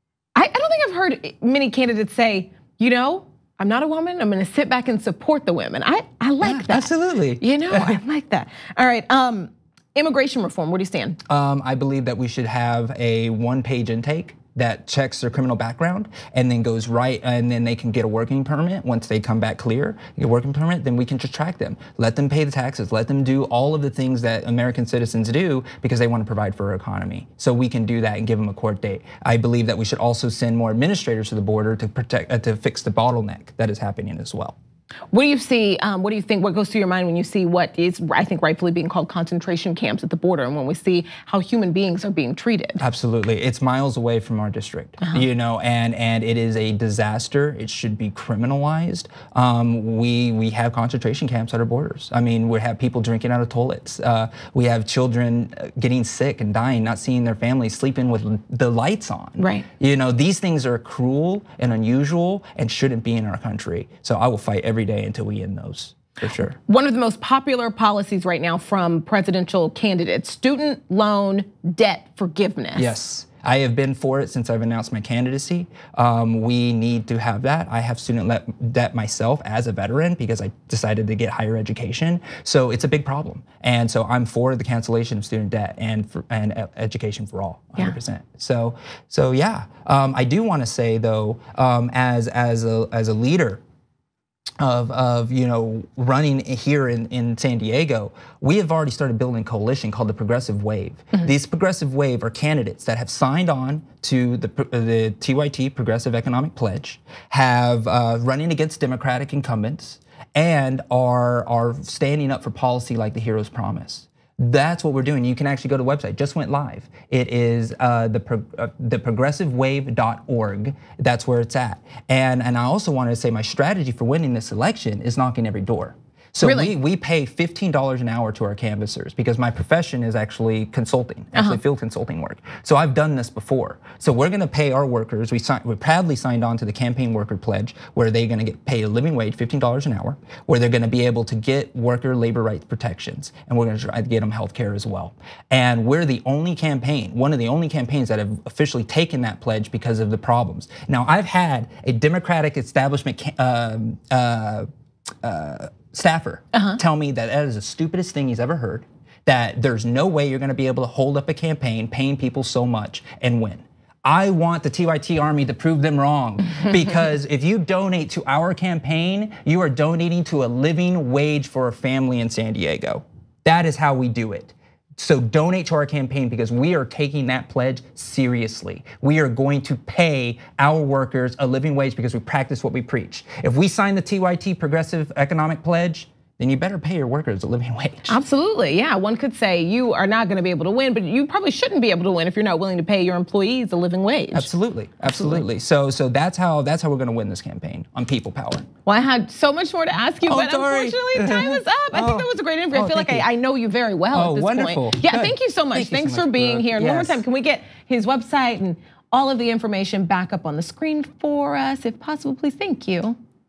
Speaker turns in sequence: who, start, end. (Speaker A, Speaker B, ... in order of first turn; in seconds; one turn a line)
Speaker A: 0.3-11.2
Speaker B: 6.4-8.0
Speaker B: 11.3-34.5
Speaker A: 35.1-42.8
Speaker B: 42.8-66.6
Speaker A: 59.4-59.6
Speaker A: 66.7-73.0
Speaker B: 72.8-93.6
Speaker B: 94.6-154.7
Speaker A: 126.4-126.7
Speaker B: 155.2-188.2
Speaker A: 156.5-156.8
Speaker A: 188.1-194.5
Speaker B: 194.3-198.7
Speaker A: 195.0-195.4
Speaker A: 198.8-213.2
Speaker B: 200.2-203.3
Speaker B: 204.1-207.2